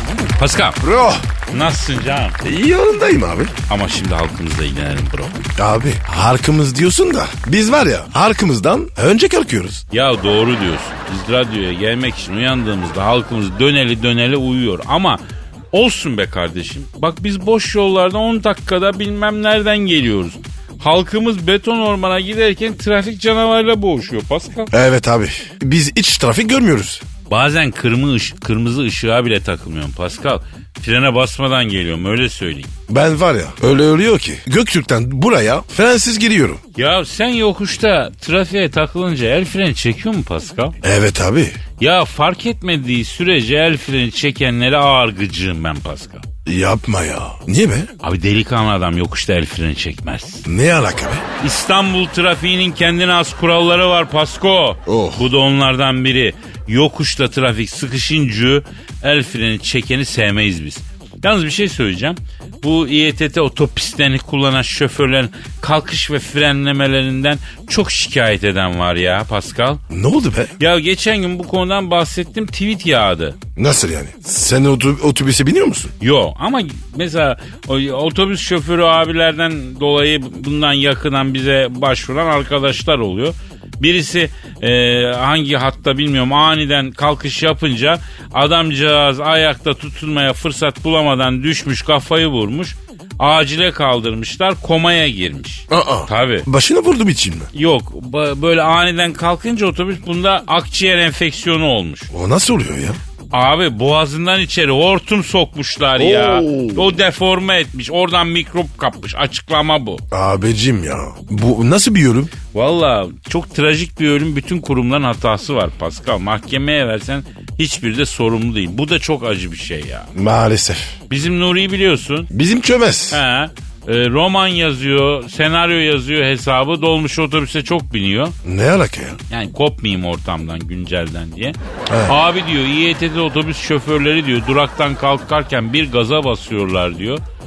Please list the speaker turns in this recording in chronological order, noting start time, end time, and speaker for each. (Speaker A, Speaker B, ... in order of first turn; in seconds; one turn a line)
Speaker A: 0.4-0.8
Speaker B: 0.8-1.2
Speaker A: 1.5-2.4
Speaker B: 2.4-3.5
Speaker A: 3.7-5.4
Speaker B: 5.6-9.8
Speaker A: 9.9-24.7
Speaker B: 24.7-27.0
Speaker A: 27.3-32.7
Speaker B: 32.9-36.6
Speaker A: 36.8-40.8
Speaker B: 40.8-41.6
Speaker A: 41.8-46.2
Speaker B: 46.5-47.9
Speaker A: 48.0-50.5
Speaker B: 50.5-51.2
Speaker A: 51.4-69.8
Speaker B: 54.9-55.2
Speaker B: 69.9-70.5
Speaker A: 70.6-73.4
Speaker B: 73.6-75.9
Speaker A: 76.0-96.5
Speaker B: 95.7-97.5
Speaker A: 97.5-102.1
Speaker B: 102.1-103.0
Speaker A: 103.3-110.0
Speaker B: 106.0-106.9
Speaker B: 110.1-112.3
Speaker A: 112.5-120.1
Speaker B: 120.1-121.0
Speaker A: 121.1-122.3
Speaker B: 122.3-123.2
Speaker A: 123.1-128.3
Speaker B: 128.4-129.2
Speaker A: 129.3-137.2
Speaker B: 131.9-132.1